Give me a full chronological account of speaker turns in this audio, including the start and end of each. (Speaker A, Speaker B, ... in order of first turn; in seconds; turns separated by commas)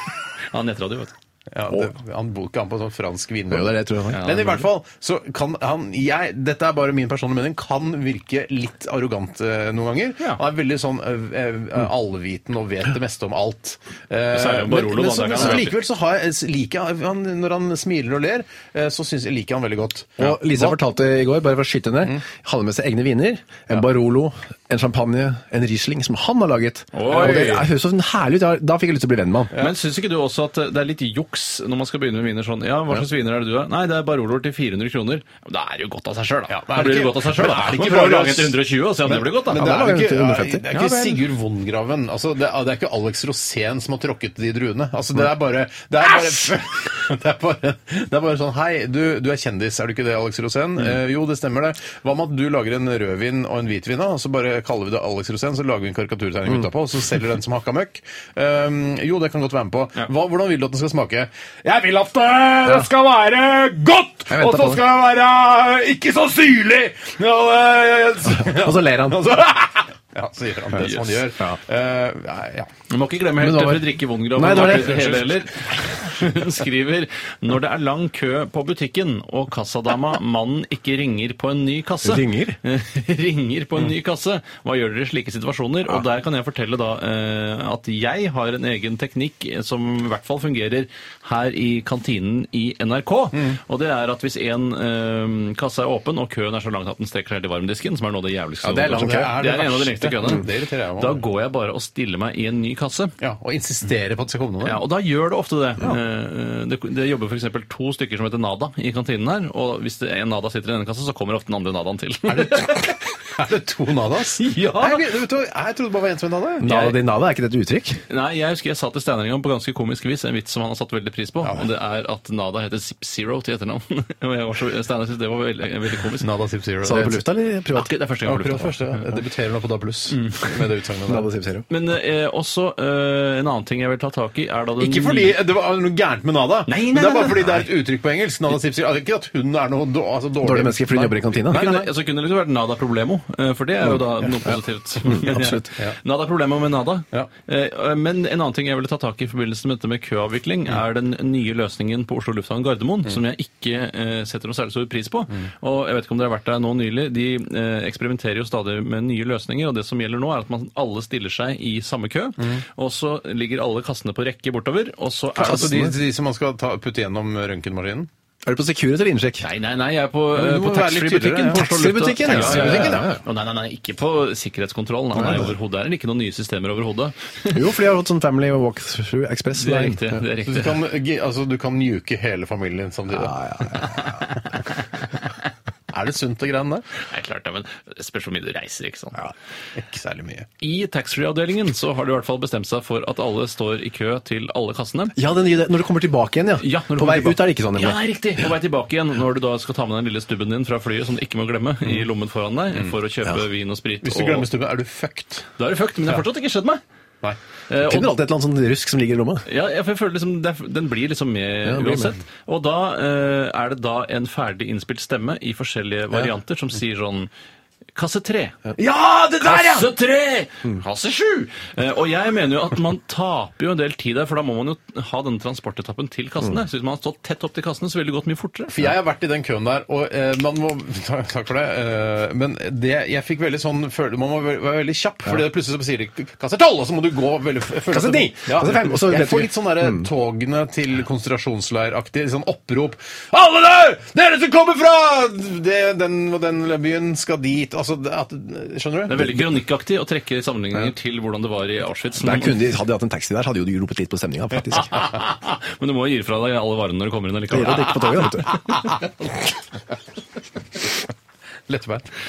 Speaker A: 0.5-1.1, Speaker B: 1.5-20.8, Speaker C: 3.5-4.4, Speaker A: 4.1-4.6, Speaker A: 14.3-15.8, Speaker C: 20.2-29.5, Speaker A: 26.9-27.7, Speaker A: 29.6-39.7, Speaker B: 36.5-72.7, Speaker C: 39.5-41.2, Speaker C: 64.3-64.8, Speaker C: 68.3-69.3, Speaker A: 70.8-71.2, Speaker A: 72.9-103.1, Speaker C: 73.4-75.3, Speaker B: 74.7-75.1, Speaker C: 82.0-82.6, Speaker C: 98.7-99.3, Speaker B: 98.7-101.2, Speaker B: 103.2-104.8, Speaker A: 104.6-113.0, Speaker B: 112.3-116.7, Speaker A: 114.4-115.0, Speaker C: 116.6-118.0, Speaker A: 116.6-117.0, Speaker A: 118.1-126.3, Speaker B: 126.2-127.2, Speaker C: 126.8-127.9, Speaker A: 127.7-129.0, Speaker B: 128.2-131.3, Speaker A: 130.1-130.5, Speaker C: 131.1-131.7, Speaker A: 131.7-135.4, Speaker B: 134.8-141.9, Speaker A: 136.7-137.7, Speaker C: 140.4-141.8, Speaker A: 141.5-165.9, Speaker C: 145.0-145.7, Speaker B: 165.4-168.1, Speaker C: 165.4-165.9, Speaker C: 168.4-169.4, Speaker A: 169.4-177.6, Speaker B: 170.3-171.7, Speaker C: 171.5-173.2, Speaker B: 172.2-173.1, Speaker C: 175.1-175.5, Speaker C: 177.5-180.2, Speaker A: 179.5-180.8, Speaker B: 180.4-183.8, Speaker C: 183.1-184.1, Speaker B: 185.9-186.8, Speaker A: 187.0-189.2, Speaker B: 189.7-190.5, Speaker A: 190.6-195.2, Speaker C: 195.2-198.0, Speaker A: 196.6-204.5, Speaker B: 204.0-205.5, Speaker A: 205.6-206.8, Speaker A: 207.7-208.1, Speaker C: 207.8-209.4, Speaker A: 209.4-217.3, Speaker C: 211.7-212.1, Speaker A: 217.9-228.8, Speaker B: 228.7-249.3, Speaker C: 237.9-240.0, Speaker A: 249.1-252.6, Speaker C: 252.2-255.1, Speaker A: 254.8-258.6, Speaker C: 257.5-258.5, Speaker B: 261.7-262.1